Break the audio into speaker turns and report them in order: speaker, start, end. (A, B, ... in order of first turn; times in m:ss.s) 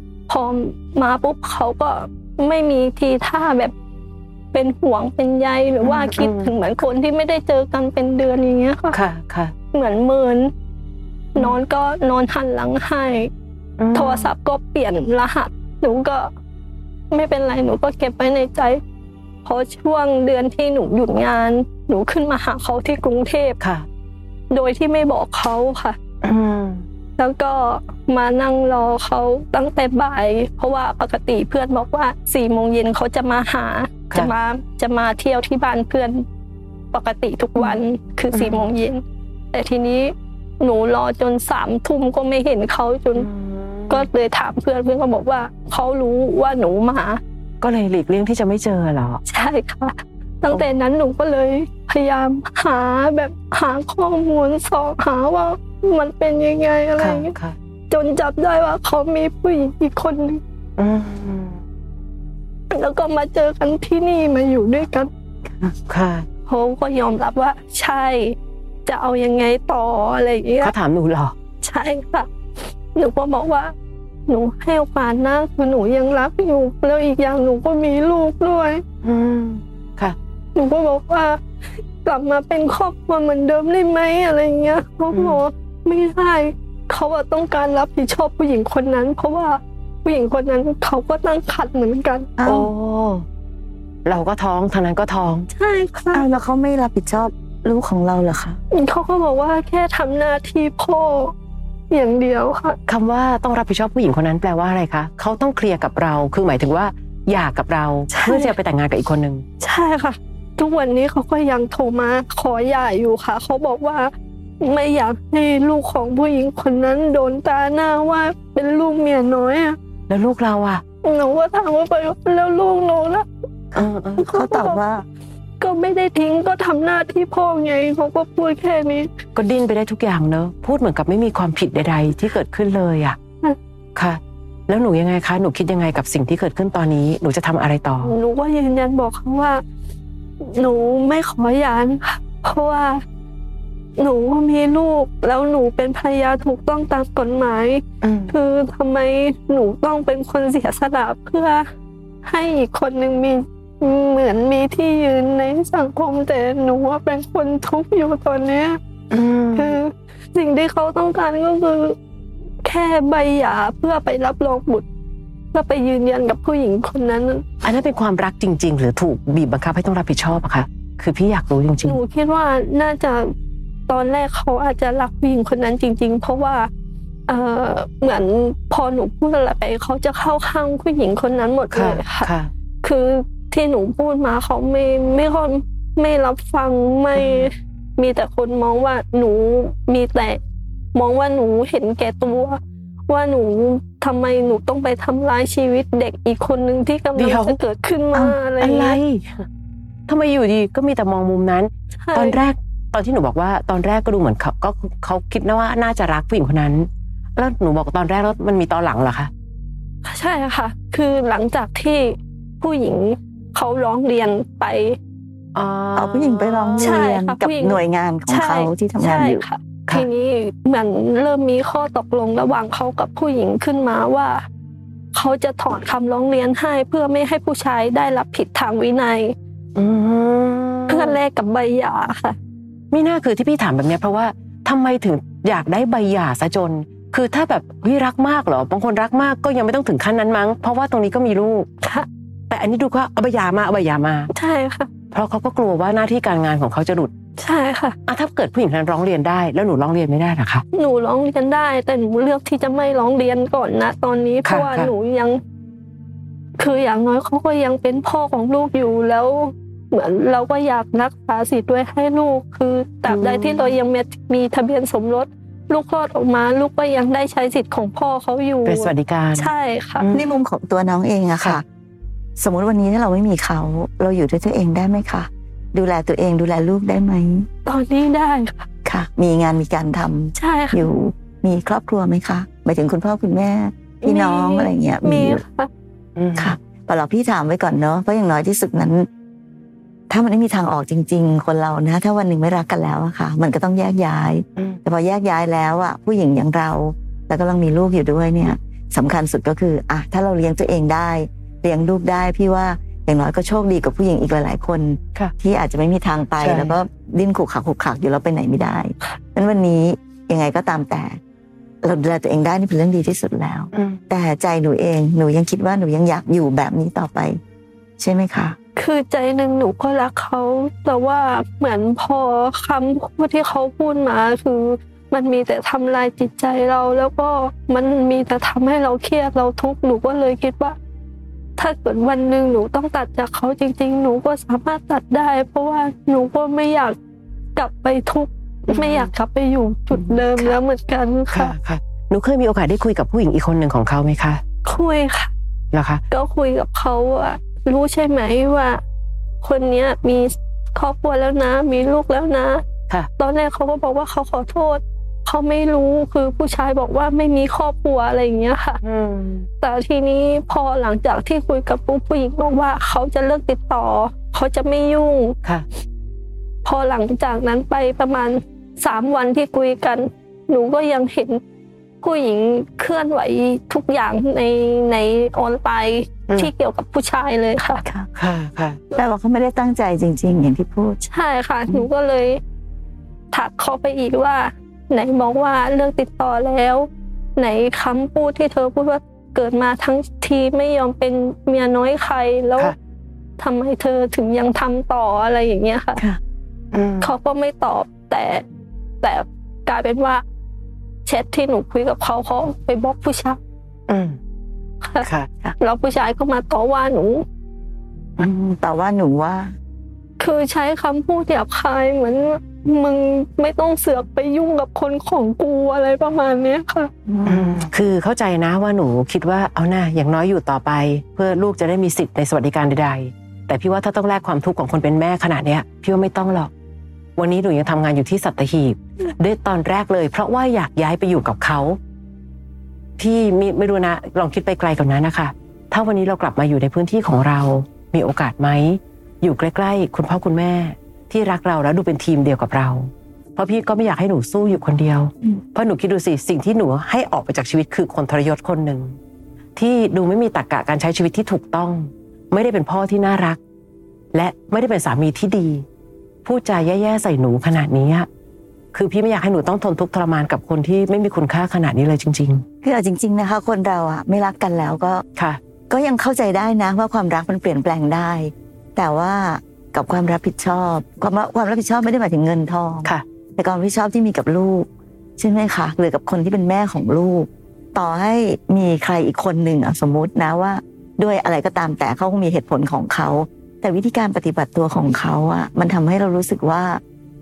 0:00.3-0:03.7 A
0:04.5-0:09.0 A
0:05.8-0:06.5 B
0:08.9-0:09.5 B
0:09.7-0:10.5 A
0:11.4-0:13.3 A
0:13.8-0:14.3 B
0:13.9-0:16.3 A
0:17.1-0:18.8 A
0:19.4-0:23.6 A
0:23.6-0:23.9 B
0:24.5-0:26.0 A
0:26.2-0:26.8 B
0:27.2-0:36.2 A
0:36.9-0:43.3 A
0:38.3-0:38.7 B
0:43.2-0:44.1 B
0:43.9-0:47.2 A
0:47.6-0:49.2 B
0:49.3-0:57.3 A
0:57.0-0:57.6 B
0:57.9-1:00.4 A
1:00.8-1:01.6 B
1:02.7-1:05.1 A
1:05.9-1:06.3 B
1:06.5-1:10.7 A
1:10.6-1:11.3 B
1:11.6-1:12.3 A
1:12.9-1:13.7 A
1:14.3-1:18.8 A
1:19.0-1:20.2 B
1:20.6-1:21.4 A
1:22.0-1:32.3 A
1:25.1-1:25.4 B
1:32.4-1:32.7 C
1:32.4-1:33.2 B
1:34.0-1:35.5 B
1:35.5-1:36.3 A
1:36.1-1:38.6 C
1:38.7-1:41.3 A
1:41.9-1:42.8 A
1:42.9-1:49.4 B
1:48.1-1:48.6 A
1:49.6-1:59.8 A
2:00.1-2:00.8 B
2:01.0-2:03.3 A
2:03.8-2:04.3 B
2:03.8-2:05.1 C
2:04.2-2:04.8 A
2:05.6-2:09.2 A
2:09.4-2:13.2 B
2:14.0-2:18.1 B
2:18.0-2:19.6 A
2:20.4-2:23.0 A
2:24.0-2:31.6 A
2:28.0-2:28.3 B
2:32.3-2:38.8 A
2:39.1-2:39.8 B
2:39.5-2:42.0 A
2:42.6-2:44.9 A
2:45.5-2:47.4 A
2:47.6-2:52.0 B
2:51.8-2:53.3 A
2:53.9-2:56.7 A
2:57.3-3:10.4 A
3:01.7-3:02.5 B
3:07.2-3:07.5 B
3:10.9-3:19.0 A
3:17.2-3:17.6 B
3:18.1-3:19.4 B
3:20.1-3:29.3 B
3:22.0-3:22.4 A
3:30.0-3:35.0 A
3:35.6-3:37.0 B
3:36.0-3:39.4 C
3:36.8-3:44.4 A
3:45.1-3:49.4 A
3:49.8-3:51.2 B
3:50.9-3:52.4 A
3:52.9-4:01.7 B
4:01.8-4:02.1 A
4:02.5-4:04.3 B
4:04.3-4:04.9 A
4:05.1-4:07.1 B
4:07.4-4:08.0 A
4:08.1-4:10.6 B
4:10.7-4:15.4 A
4:14.4-4:14.9 B
4:16.6-4:30.1 A
4:23.1-4:23.8 B
4:28.6-4:30.2 B
4:30.1-4:31.6 C
4:32.4-4:37.5 C
4:37.6-4:38.7 A
4:38.8-4:45.4 C
4:40.4-4:40.9 A
4:44.0-4:45.7 A
4:46.2-4:46.6 B
4:46.4-4:49.1 C
4:50.1-5:11.2 C
5:06.4-5:06.7 B
5:11.8-5:17.4 C
5:13.7-5:14.0 B
5:18.0-5:18.6 C
5:18.8-5:30.8 A
5:31.6-5:37.0 A
5:37.6-5:41.6 A
5:38.7-5:39.1 B
5:40.1-5:40.6 B
5:41.3-5:44.4 B
5:44.6-5:45.3 A
5:45.7-5:46.0 B
5:46.1-5:48.8 A
5:49.4-5:52.7 A
5:53.2-5:58.8 A
5:58.8-5:59.5 B
5:59.6-6:05.4 A
6:06.6-6:11.4 A
6:12.0-6:17.8 A
6:18.2-6:18.8 B
6:18.9-6:21.0 C
6:21.0-6:22.4 A
6:23.3-6:32.8 A
6:33.4-6:36.0 A
6:36.7-6:37.1 B
6:37.0-6:38.4 A
6:39.0-6:40.2 A
6:41.0-6:43.4 A
6:43.9-6:44.2 B
6:45.0-6:45.3 B
6:45.6-6:47.2 A
6:48.2-6:49.6 C
6:50.2-6:56.9 A
6:57.1-6:57.6 C
6:57.2-7:06.5 B
7:07.2-7:11.8 B
7:13.0-7:29.0 B
7:29.6-7:33.4 B
7:34.1-7:35.6 B
7:36.2-7:38.1 B
7:38.7-7:42.4 B
7:42.6-7:45.0 C
7:45.7-8:06.8 C